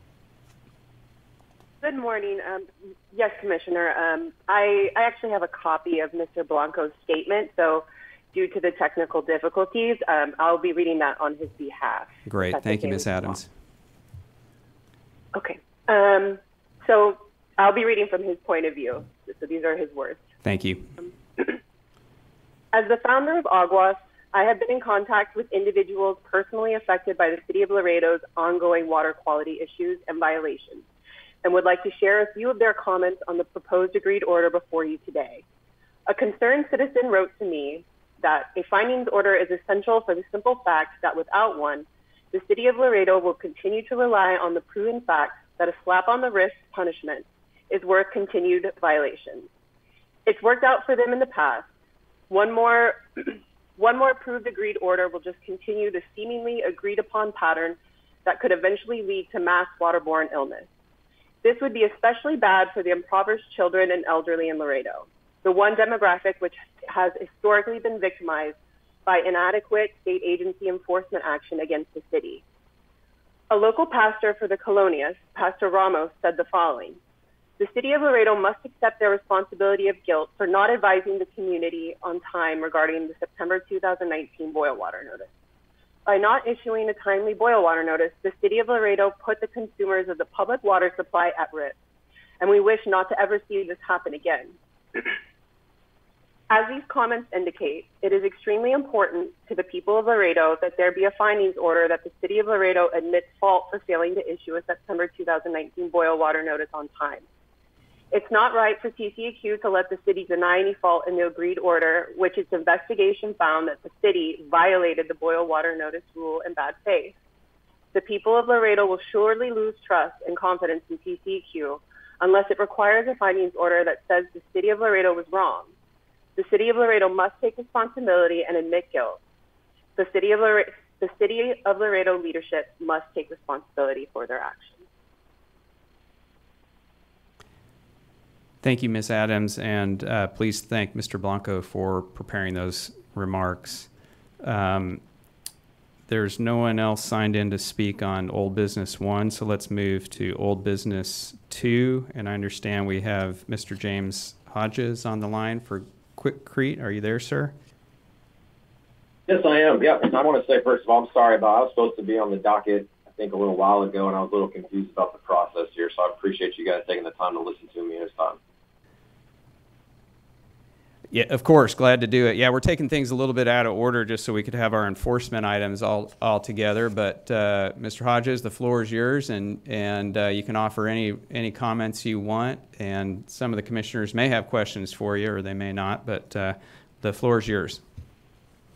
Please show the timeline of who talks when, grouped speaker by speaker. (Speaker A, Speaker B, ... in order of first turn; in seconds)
Speaker A: 1.8-13.4, 15.3-20.2, 22.7-30.8, 31.4-35.4, 36.1-49.5, 50.2-51.6, 52.3-60.6, 61.4-68.5, 69.0-72.4, 73.5-77.0, 77.6-85.3, 86.0-91.8, 92.4-94.5, 96.5-107.2, 108.1-117.1, 117.9-125.7, 126.3-129.2, 130.0-134.8
Speaker B: 12.2-13.5, 20.4-20.9, 138.6-145.0, 146.1-157.5, 171.1-187.8
Speaker C: 159.3-168.4